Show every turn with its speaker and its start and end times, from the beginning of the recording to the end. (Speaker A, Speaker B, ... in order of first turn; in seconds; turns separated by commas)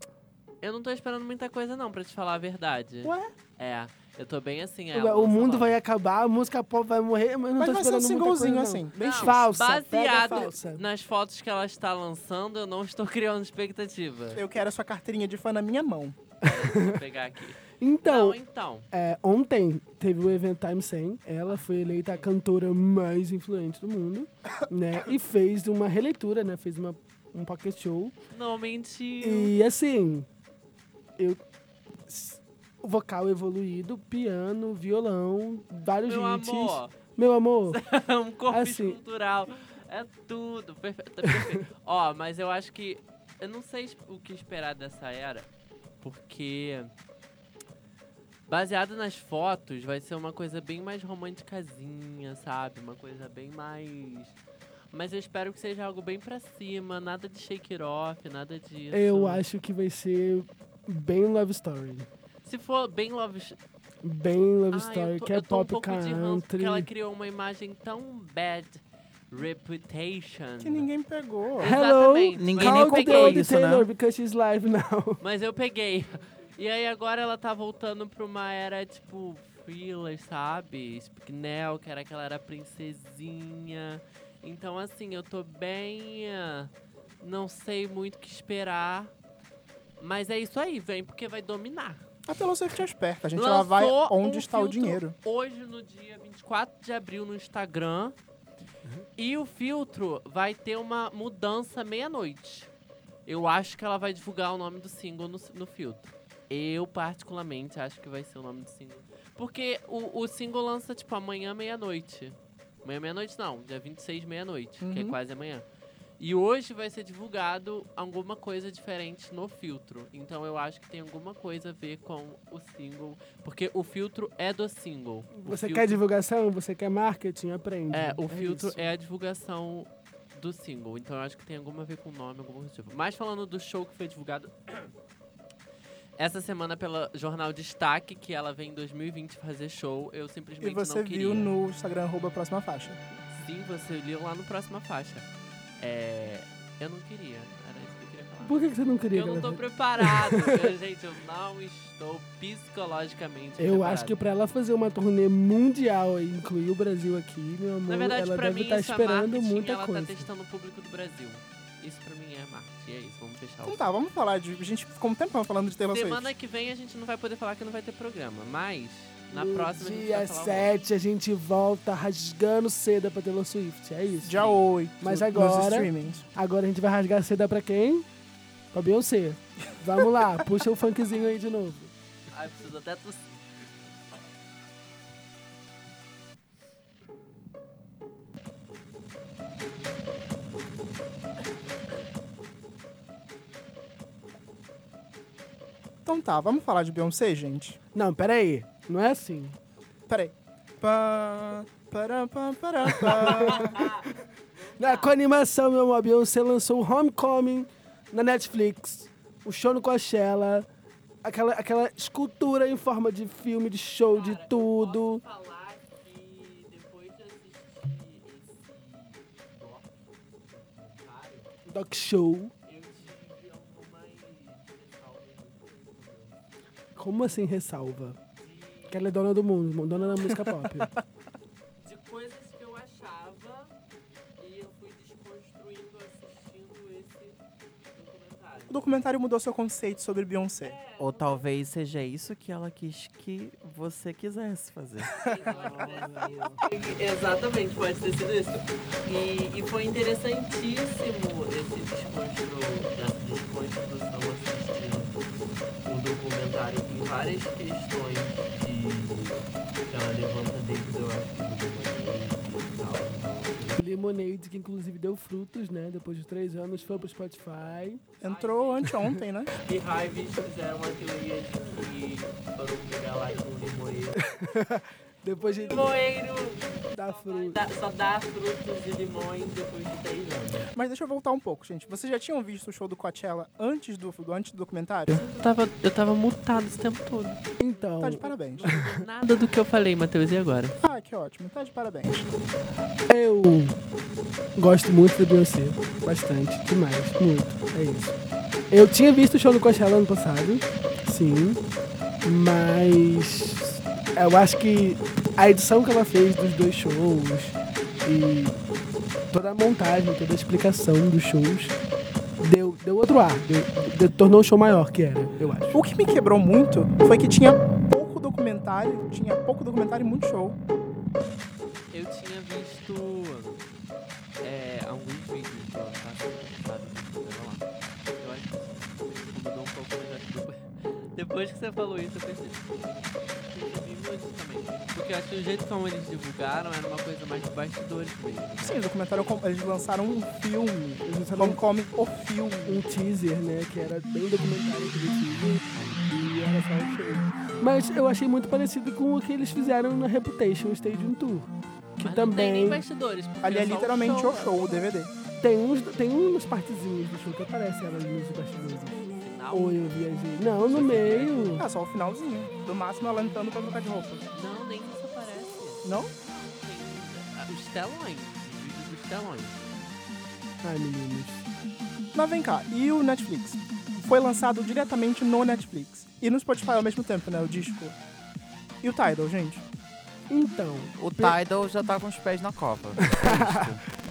Speaker A: 0.6-5.8, Speaker B: 3.0-3.3, Speaker C: 4.9-10.8, Speaker B: 7.6-9.5, Speaker A: 8.9-14.4, Speaker B: 10.1-10.5, Speaker B: 14.3-16.2, Speaker A: 16.4-18.9, Speaker C: 16.4-17.0, Speaker C: 17.8-18.4, Speaker C: 18.9-28.1, Speaker A: 21.5-22.3, Speaker A: 28.3-29.5, Speaker C: 29.2-30.3, Speaker C: 32.1-37.8, Speaker A: 36.0-37.0, Speaker A: 37.7-45.5, Speaker C: 38.5-39.0, Speaker A: 46.0-46.9, Speaker A: 48.5-54.4, Speaker A: 54.9-59.4, Speaker C: 58.9-62.1, Speaker A: 62.4-63.6, Speaker C: 64.0-66.9, Speaker A: 64.7-70.9, Speaker B: 70.6-71.8, Speaker A: 71.6-73.4, Speaker C: 71.6-75.2, Speaker D: 72.4-73.9, Speaker A: 75.2-89.1, Speaker A: 90.0-92.0, Speaker B: 92.2-95.2, Speaker A: 93.3-98.2, Speaker A: 99.2-102.7, Speaker A: 103.2-115.6, Speaker B: 114.8-115.2, Speaker A: 116.2-126.0, Speaker C: 125.3-128.9, Speaker A: 127.9-134.9, Speaker A: 136.2-141.5, Speaker B: 140.6-143.0, Speaker A: 143.3-145.3, Speaker A: 145.8-148.6, Speaker C: 148.4-150.7, Speaker A: 149.1-154.2, Speaker C: 153.6-160.3, Speaker A: 157.9-163.9, Speaker B: 163.6-166.3, Speaker A: 165.9-170.7, Speaker C: 169.3-174.5, Speaker B: 174.2-176.3, Speaker A: 174.3-174.6, Speaker C: 175.0-178.1, Speaker C: 178.7-181.9, Speaker A: 182.3-183.4, Speaker B: 196.0-197.8, Speaker C: 197.9-199.6, Speaker B: 200.1-203.9, Speaker C: 203.0-204.0, Speaker A: 203.4-205.2, Speaker C: 204.8-210.7, Speaker C: 211.2-215.2, Speaker A: 214.1-221.5, Speaker C: 221.7-222.5, Speaker A: 222.7-226.4, Speaker C: 226.9-228.2, Speaker A: 228.4-229.1, Speaker C: 228.9-230.9, Speaker A: 229.9-230.3, Speaker A: 231.8-233.7, Speaker A: 234.4-237.4, Speaker A: 237.9-238.9, Speaker B: 238.7-240.8, Speaker A: 240.6-241.5, Speaker D: 241.0-245.3, Speaker A: 245.1-255.1, Speaker C: 245.3-246.6, Speaker A: 255.8-263.8, Speaker C: 263.7-268.0, Speaker A: 266.7-269.1, Speaker B: 268.2-269.5, Speaker C: 268.8-269.1, Speaker A: 269.6-274.2, Speaker C: 274.2-276.0, Speaker A: 275.3-280.7, Speaker C: 276.9-277.6, Speaker B: 280.7-285.2, Speaker A: 285.1-290.8, Speaker C: 287.6-289.0, Speaker B: 288.0-288.8, Speaker B: 290.8-292.3, Speaker C: 293.1-293.8, Speaker C: 294.6-298.2, Speaker C: 298.7-301.6, Speaker C: 302.2-308.6, Speaker C: 309.3-311.8, Speaker C: 312.4-315.8, Speaker B: 315.7-320.6, Speaker A: 321.9-323.6, Speaker A: 324.4-338.8, Speaker B: 338.6-342.8, Speaker C: 341.0-341.6, Speaker C: 342.6-352.8, Speaker A: 347.4-347.7, Speaker A: 352.0-354.9, Speaker B: 353.4-355.1, Speaker C: 355.4-361.6, Speaker A: 359.1-359.9, Speaker A: 360.6-361.6, Speaker B: 361.5-364.2, Speaker A: 364.3-369.6, Speaker B: 365.8-366.1, Speaker C: 370.6-371.4, Speaker B: 372.1-378.0, Speaker B: 378.8-379.6, Speaker C: 380.3-381.4, Speaker D: 381.0-383.8, Speaker C: 383.0-383.8